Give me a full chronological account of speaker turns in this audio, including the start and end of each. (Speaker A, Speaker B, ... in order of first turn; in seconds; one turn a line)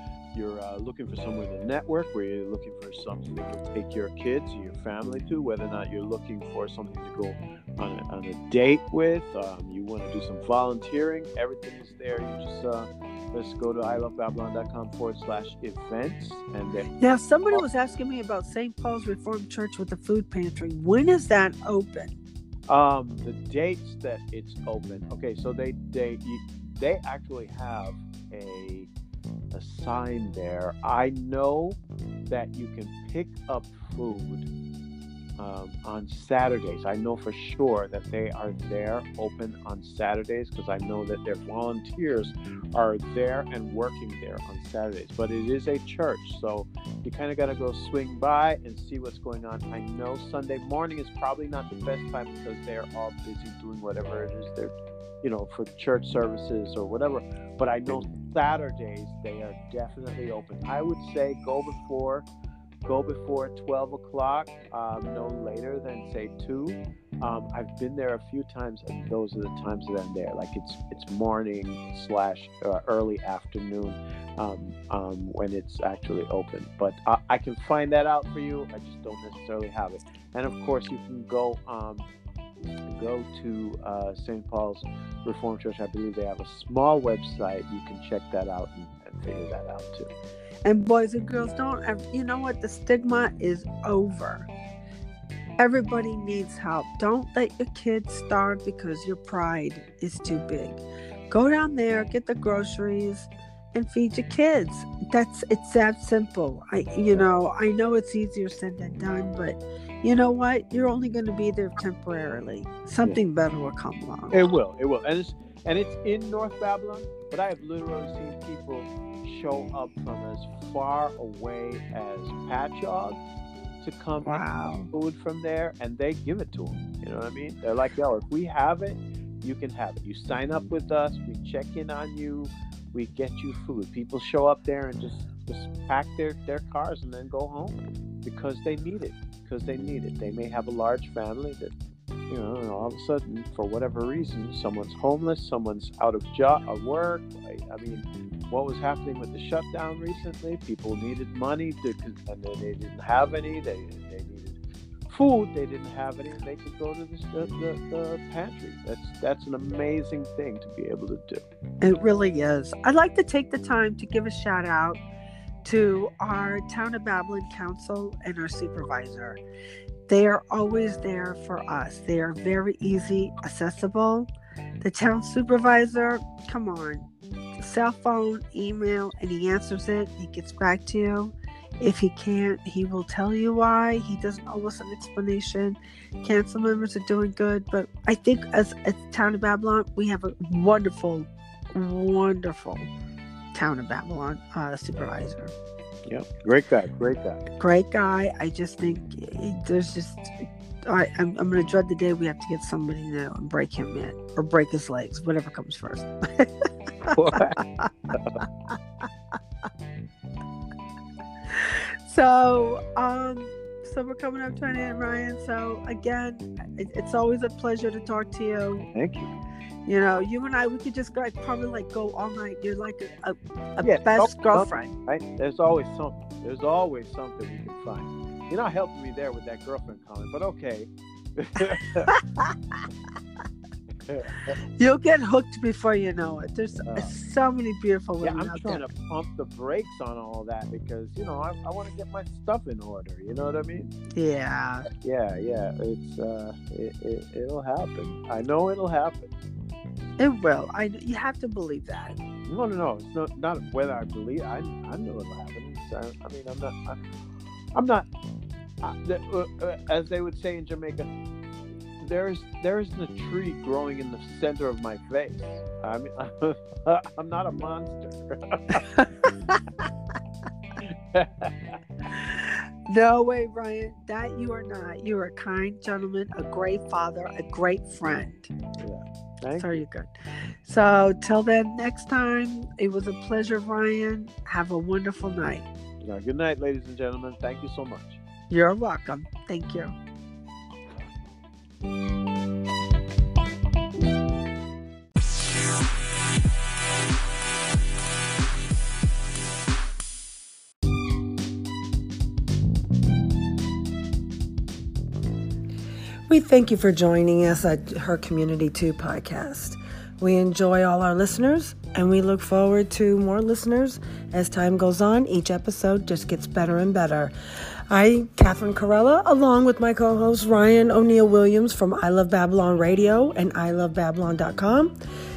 Speaker A: 0.3-16.9
Speaker B: 17.0-22.2
Speaker A: 22.7-28.9
Speaker A: 29.5-31.8
Speaker A: 32.3-34.5
Speaker A: 35.4-62.3
Speaker A: 62.9-82.1
Speaker A: 82.9-90.1
Speaker B: 90.7-94.5
Speaker B: 95.6-114.4
Speaker A: 114.3-123.2
Speaker A: 123.8-141.7
Speaker B: 124.2-124.9
Speaker A: 142.3-154.6
Speaker A: 155.1-161.4
Speaker B: 161.8-165.0
Speaker B: 165.6-169.4
Speaker B: 170.1-174.3
Speaker B: 174.8-192.9
Speaker B: 193.5-195.5
Speaker A: 196.1-197.4
Speaker B: 197.6-209.1
Speaker A: 207.1-207.6
Speaker B: 211.5-218.9
Speaker A: 218.9-219.3
Speaker B: 219.9-224.9
Speaker A: 223.8-232.1
Speaker B: 232.1-232.5
Speaker A: 234.1-234.6
Speaker B: 234.8-238.8
Speaker A: 236.8-237.2
Speaker A: 238.2-243.9
Speaker B: 244.2-244.9
Speaker A: 245.0-249.3
Speaker B: 250.2-252.2
Speaker A: 252.5-257.0
Speaker A: 257.7-258.1
Speaker A: 258.8-261.1
Speaker A: 262.0-268.9
Speaker B: 268.9-269.3
Speaker A: 270.8-271.8
Speaker B: 272.1-278.5
Speaker A: 278.8-279.8
Speaker B: 279.6-280.1
Speaker B: 280.6-285.7
Speaker A: 286.0-288.2
Speaker B: 288.5-289.9
Speaker C: 306.3-317.3
Speaker C: 317.9-324.9